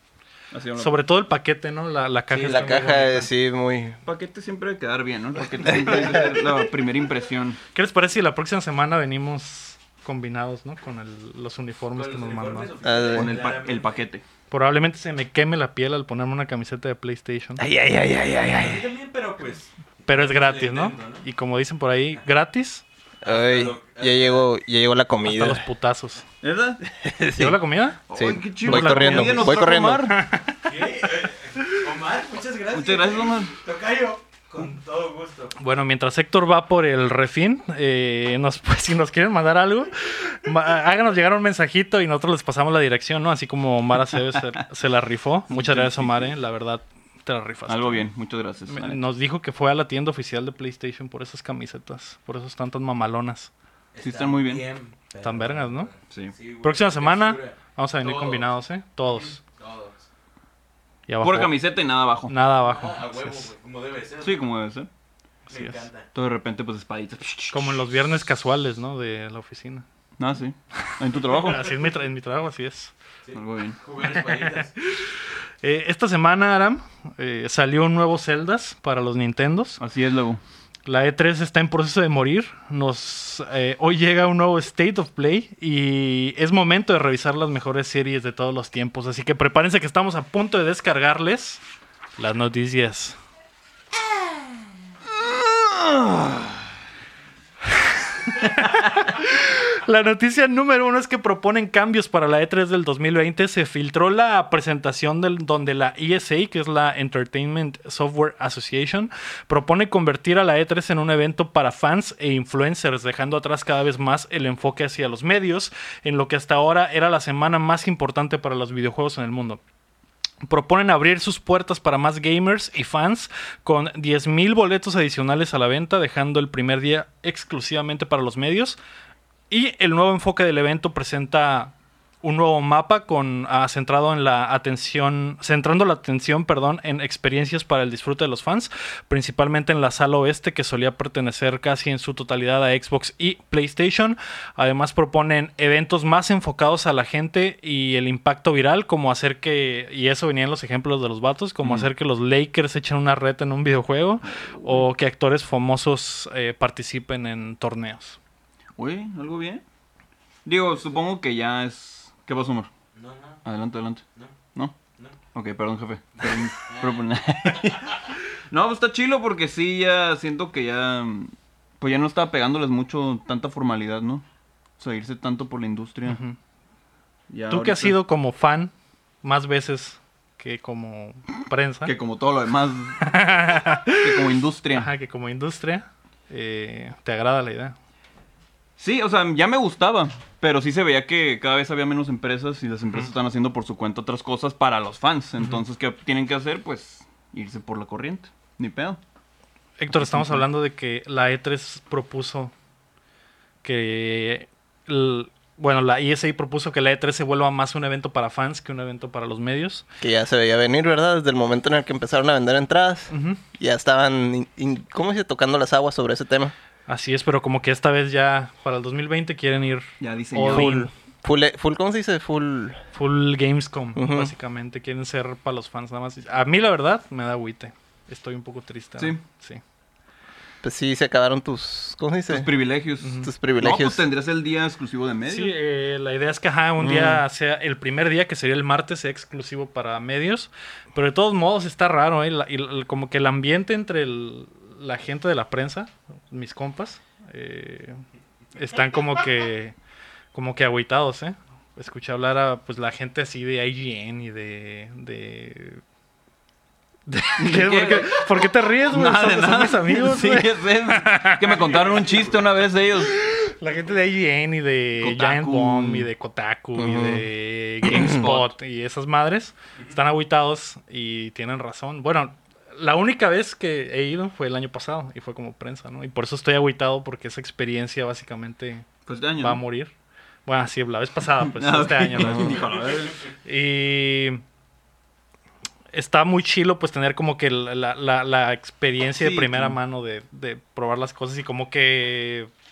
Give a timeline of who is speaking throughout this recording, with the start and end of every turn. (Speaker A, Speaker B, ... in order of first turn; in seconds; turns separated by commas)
Speaker A: 0.5-1.0, Speaker B: 0.8-3.3, Speaker C: 2.3-2.8, Speaker D: 2.5-4.0, Speaker A: 4.0-7.6, Speaker D: 5.7-6.2, Speaker B: 5.7-6.0, Speaker B: 7.7-12.7, Speaker C: 12.0-14.0, Speaker D: 12.8-13.5, Speaker A: 13.1-14.2, Speaker B: 14.5-17.6, Speaker D: 17.6-18.9, Speaker C: 18.4-21.2, Speaker B: 20.1-22.8, Speaker C: 23.2-24.5, Speaker D: 23.2-25.6, Speaker B: 25.3-26.2, Speaker A: 26.4-26.8, Speaker D: 26.9-27.6, Speaker B: 27.4-28.0, Speaker D: 28.1-30.1, Speaker A: 28.1-30.2, Speaker B: 28.6-30.6, Speaker C: 30.7-35.5, Speaker A: 32.7-33.5, Speaker B: 35.6-48.1, Speaker A: 45.5-46.3, Speaker A: 47.7-49.1, Speaker B: 48.7-53.5, Speaker C: 53.9-58.5, Speaker A: 54.0-54.6, Speaker B: 55.2-55.9, Speaker B: 56.6-59.4, Speaker C: 59.2-60.0, Speaker B: 61.1-61.5, Speaker A: 61.2-62.4, Speaker B: 62.3-63.5, Speaker C: 62.6-64.5, Speaker A: 64.2-64.9, Speaker B: 65.5-65.9, Speaker C: 65.5-66.1, Speaker A: 66.1-67.8, Speaker B: 67.5-69.8, Speaker A: 70.2-71.7, Speaker B: 70.9-72.9, Speaker C: 73.2-74.8, Speaker A: 73.3-73.8, Speaker B: 75.6-79.8, Speaker A: 79.8-80.4, Speaker B: 80.9-91.6, Speaker B: 92.2-93.2, Speaker A: 95.7-96.5, Speaker B: 97.7-119.6, Speaker B: 120.4-128.8, Speaker B: 129.5-158.2, Speaker A: 154.2-154.9, Speaker A: 158.8-159.6, Speaker A: 160.4-162.7, Speaker C: 162.9-163.4, Speaker A: 163.5-164.0, Speaker A: 165.3-174.2, Speaker C: 166.2-167.1, Speaker A: 174.8-176.2, Speaker B: 176.1-176.4, Speaker A: 177.3-178.0, Speaker B: 177.5-181.9, Speaker A: 181.8-183.2, Speaker B: 183.0-187.8, Speaker A: 184.0-184.9, Speaker A: 188.8-199.0, Speaker B: 199.8-202.5, Speaker A: 199.9-200.4, Speaker B: 203.6-209.8, Speaker D: 210.0-216.5, Speaker B: 213.1-213.4, Speaker B: 216.9-220.9, Speaker A: 220.0-220.9, Speaker D: 220.5-222.8, Speaker B: 222.9-229.6, Speaker D: 223.9-224.3, Speaker D: 230.6-232.5, Speaker A: 232.3-235.6, Speaker B: 233.0-233.3, Speaker D: 233.2-234.1, Speaker B: 235.3-248.0, Speaker A: 236.8-237.2, Speaker B: 248.6-249.8, Speaker B: 250.3-255.8, Speaker B: 257.1-261.8, Speaker A: 257.4-263.2, Speaker C: 261.5-262.5, Speaker B: 263.1-278.9, Speaker A: 265.0-266.1, Speaker D: 266.8-267.3, Speaker D: 267.8-268.3, Speaker A: 279.1-279.6, Speaker B: 279.4-279.9, Speaker B: 280.5-282.7, Speaker A: 281.4-283.3, Speaker B: 283.4-284.4, Speaker B: 285.9-292.5, Speaker A: 289.1-289.8